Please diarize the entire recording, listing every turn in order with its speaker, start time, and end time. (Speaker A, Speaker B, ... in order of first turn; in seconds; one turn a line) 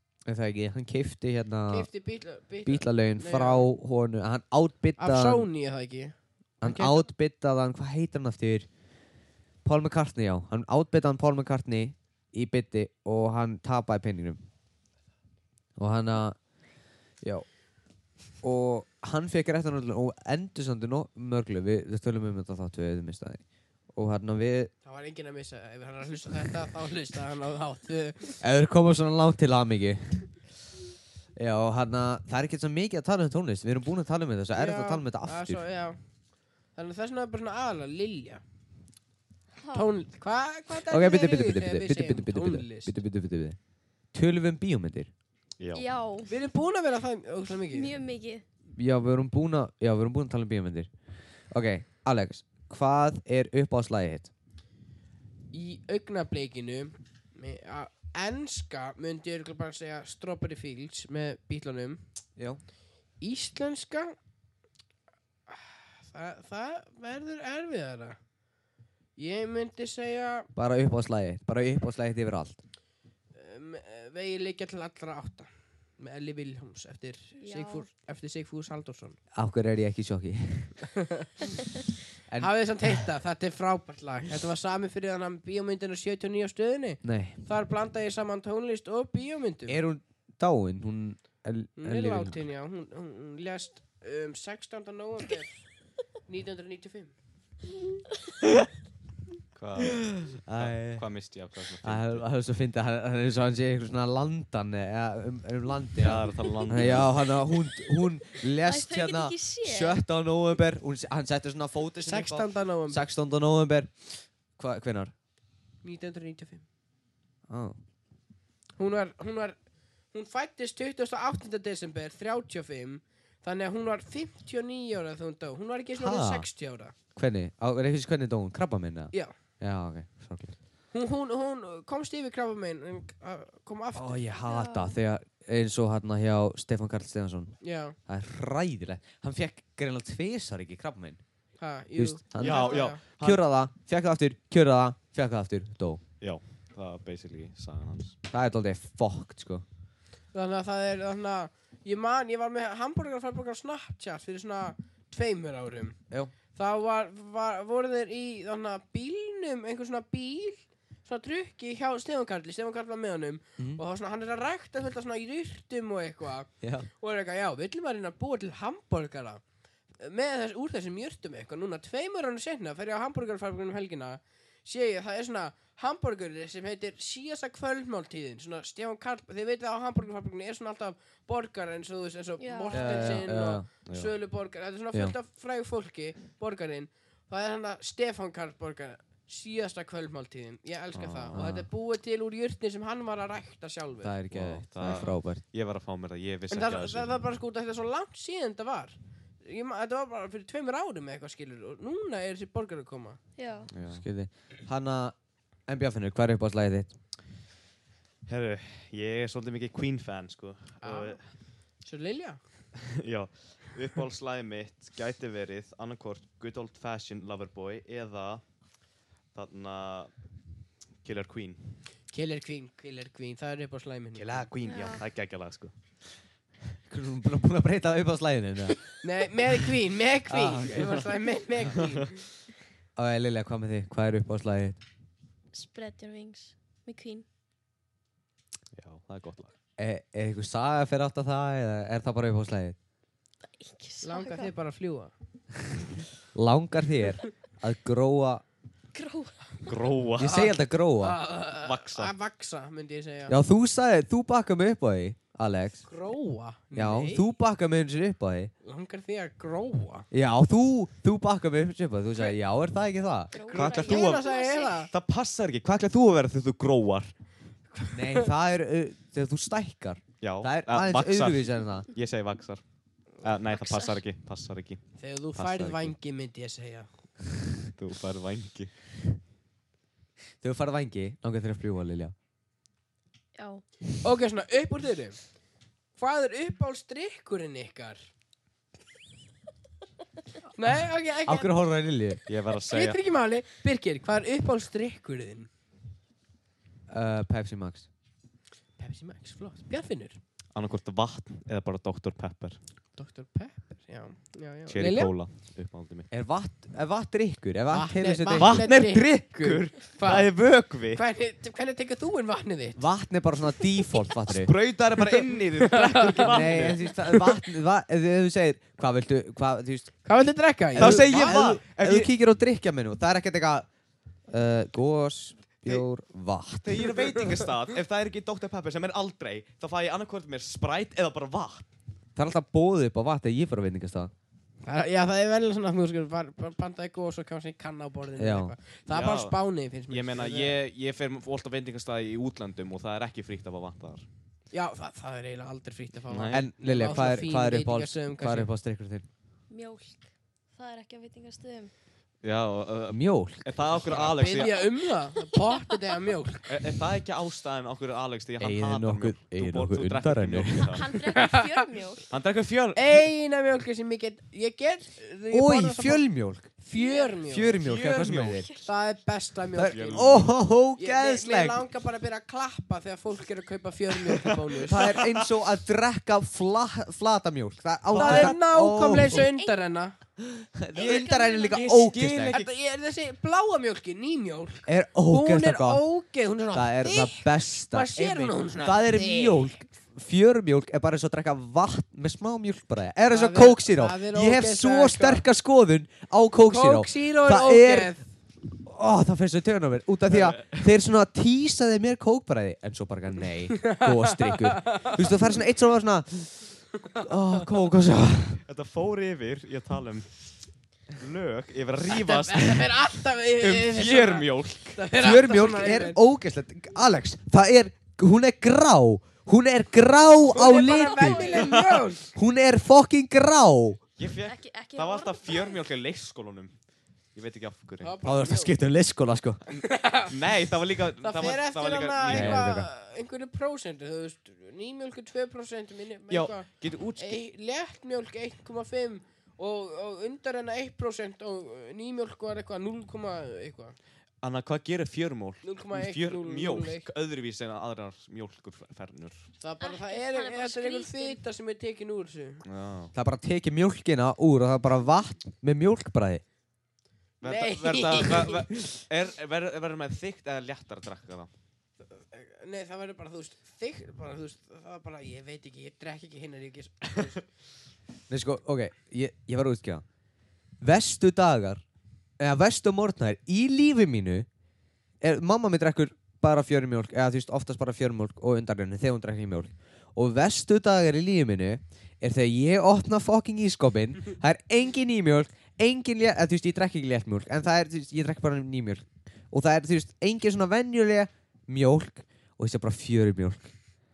Speaker A: 0.3-1.9
Speaker B: 1.7-3.7
Speaker A: 2.6-5.5
Speaker B: 5.0-7.0
Speaker A: 6.6-8.7
Speaker A: 9.6-14.4
Speaker A: 15.8-16.4
Speaker A: 18.4-23.4
Speaker A: 23.9-24.7
Speaker B: 24.8-28.4
Speaker A: 28.4-30.3
Speaker A: 31.4-35.6
Speaker B: 34.5-36.0
Speaker B: 36.7-38.4
Speaker C: 39.6-39.9
Speaker B: 39.7-42.9
Speaker A: 40.9-43.6
Speaker A: 44.1-45.1
Speaker D: 45.6-45.8
Speaker C: 45.7-46.3
Speaker B: 46.3-47.9
Speaker C: 47.7-48.4
Speaker A: 48.8-50.9
Speaker A: 51.5-54.3
Speaker B: 55.5-62.0
Speaker B: 63.2-64.1
Speaker B: 65.5-68.2
Speaker B: 69.2-70.5
Speaker A: 70.5-72.6
Speaker B: 73.3-79.2
Speaker C: 77.4-77.9
Speaker A: 79.3-80.7
Speaker B: 80.9-81.3
Speaker A: 82.3-83.0
Speaker B: 82.4-89.8
Speaker A: 87.0-87.4
Speaker A: 89.7-92.4
Speaker B: 91.8-95.6
Speaker B: 96.2-97.1
Speaker D: 99.5-102.2
Speaker A: 99.8-101.0
Speaker A: 101.8-115.1
Speaker D: 106.0-107.1
Speaker C: 108.4-110.0
Speaker B: 112.0-113.0
Speaker B: 115.8-116.6
Speaker A: 117.5-117.8
Speaker B: 118.8-119.5
Speaker B: 120.1-126.9
Speaker A: 126.0-126.5
Speaker A: 127.2-130.5
Speaker B: 130.9-134.2
Speaker A: 133.9-141.2
Speaker C: 134.4-135.0
Speaker B: 137.6-138.0
Speaker B: 141.6-143.0
Speaker A: 142.0-146.0
Speaker D: 142.4-143.4
Speaker D: 146.2-148.2
Speaker A: 148.3-149.6
Speaker B: 150.3-156.0
Speaker B: 156.5-169.4
Speaker A: 166.6-166.9
Speaker B: 170.0-194.1
Speaker C: 182.4-183.2
Speaker A: 182.7-183.7
Speaker D: 183.9-184.1
Speaker D: 190.9-191.4
Speaker A: 191.3-191.7
Speaker A: 194.0-195.4
Speaker D: 194.3-197.1
Speaker B: 196.5-203.2
Speaker C: 203.4-203.7
Speaker D: 203.7-204.0
Speaker A: 203.9-205.1
Speaker A: 205.7-206.9
Speaker D: 208.2-211.2
Speaker B: 210.8-211.2
Speaker B: 211.8-212.4
Speaker D: 212.8-218.4
Speaker D: 219.3-220.1
Speaker D: 221.0-221.8
Speaker B: 222.1-224.5
Speaker D: 224.1-225.7
Speaker C: 224.6-225.0
Speaker A: 226.9-228.9
Speaker B: 229.0-232.2
Speaker A: 230.3-231.1
Speaker D: 231.8-232.0
Speaker A: 232.9-234.8
Speaker C: 235.5-237.2
Speaker D: 238.7-239.5
Speaker A: 239.8-242.8
Speaker C: 243.4-244.5
Speaker B: 244.0-245.1
Speaker A: 246.3-248.4
Speaker C: 248.9-249.8
Speaker D: 249.6-250.5
Speaker A: 250.2-251.2
Speaker B: 250.2-253.4
Speaker D: 251.6-252.1
Speaker A: 253.3-255.8
Speaker B: 255.8-257.2
Speaker A: 256.7-258.5
Speaker B: 258.6-260.1
Speaker A: 260.1-263.4
Speaker C: 263.3-264.9
Speaker B: 263.5-264.9
Speaker D: 263.5-264.3
Speaker D: 264.9-267.1
Speaker B: 267.7-268.3
Speaker A: 267.9-271.9
Speaker D: 270.2-272.6
Speaker D: 273.2-274.8
Speaker C: 273.5-274.0
Speaker B: 275.0-276.9
Speaker D: 275.4-275.9
Speaker D: 277.8-278.7
Speaker A: 280.4-282.1
Speaker C: 283.3-283.6
Speaker B: 284.0-285.2
Speaker B: 285.9-288.0
Speaker B: 290.5-291.5
Speaker A: 291.2-292.2
Speaker D: 292.3-293.0
Speaker B: 292.6-295.5
Speaker A: 296.9-297.9
Speaker B: 298.8-300.2
Speaker D: 300.5-302.6
Speaker B: 302.9-305.1
Speaker D: 304.7-306.1
Speaker A: 306.1-309.6
Speaker B: 307.7-309.2
Speaker D: 308.3-311.0
Speaker B: 309.9-312.8
Speaker A: 312.8-314.5
Speaker D: 314.3-316.9
Speaker B: 315.6-316.6
Speaker A: 316.1-319.9
Speaker B: 320.0-321.5
Speaker D: 320.7-322.1
Speaker A: 320.7-323.7
Speaker A: 324.3-327.0
Speaker D: 326.6-331.7
Speaker A: 332.1-334.1
Speaker B: 334.6-340.6
Speaker A: 338.2-338.5
Speaker D: 338.9-339.4
Speaker D: 339.9-344.1
Speaker B: 344.5-348.5
Speaker D: 346.1-346.9
Speaker A: 346.3-349.1
Speaker C: 349.5-351.7
Speaker D: 352.2-354.6
Speaker A: 352.9-354.1
Speaker B: 353.8-356.4
Speaker C: 354.3-355.8
Speaker D: 356.5-360.9
Speaker A: 358.4-360.7
Speaker C: 360.5-362.1
Speaker B: 361.0-361.6
Speaker D: 362.1-363.0
Speaker B: 362.7-366.0
Speaker A: 365.3-366.5
Speaker B: 366.6-367.6
Speaker C: 366.7-367.2
Speaker A: 367.3-368.5
Speaker D: 367.6-368.4
Speaker B: 368.6-370.2
Speaker A: 369.5-371.6
Speaker D: 369.6-370.3
Speaker B: 370.8-374.9
Speaker D: 374.1-375.2
Speaker A: 374.7-379.3
Speaker D: 377.9-378.4
Speaker B: 377.9-379.9
Speaker A: 380.5-382.4
Speaker C: 380.8-381.7
Speaker B: 380.8-389.5
Speaker D: 381.5-382.5
Speaker A: 384.7-385.8
Speaker A: 386.5-397.9
Speaker B: 393.1-395.2
Speaker B: 396.5-398.0
Speaker A: 398.6-408.4
Speaker D: 400.1-400.7
Speaker B: 403.5-405.1
Speaker D: 408.4-410.1
Speaker D: 411.0-412.8
Speaker B: 411.8-416.0
Speaker D: 413.4-414.8
Speaker A: 415.0-421.5
Speaker B: 420.2-422.1
Speaker C: 420.5-421.5
Speaker D: 421.5-421.8
Speaker A: 422.1-423.8
Speaker D: 424.0-426.5
Speaker C: 424.2-425.6
Speaker D: 427.1-427.9
Speaker B: 427.8-428.5
Speaker A: 428.0-429.4
Speaker D: 429.5-432.4
Speaker B: 429.6-430.1
Speaker B: 431.0-443.8
Speaker A: 432.0-432.7
Speaker D: 436.1-437.2
Speaker D: 444.2-449.2
Speaker B: 445.4-446.9
Speaker B: 449.4-452.4
Speaker C: 449.6-451.2
Speaker D: 452.4-452.9
Speaker A: 452.9-456.2
Speaker D: 457.2-461.3
Speaker B: 457.2-458.4
Speaker B: 461.9-467.2
Speaker A: 468.1-469.8
Speaker A: 470.6-471.6
Speaker A: 472.2-474.3
Speaker A: 475.0-493.5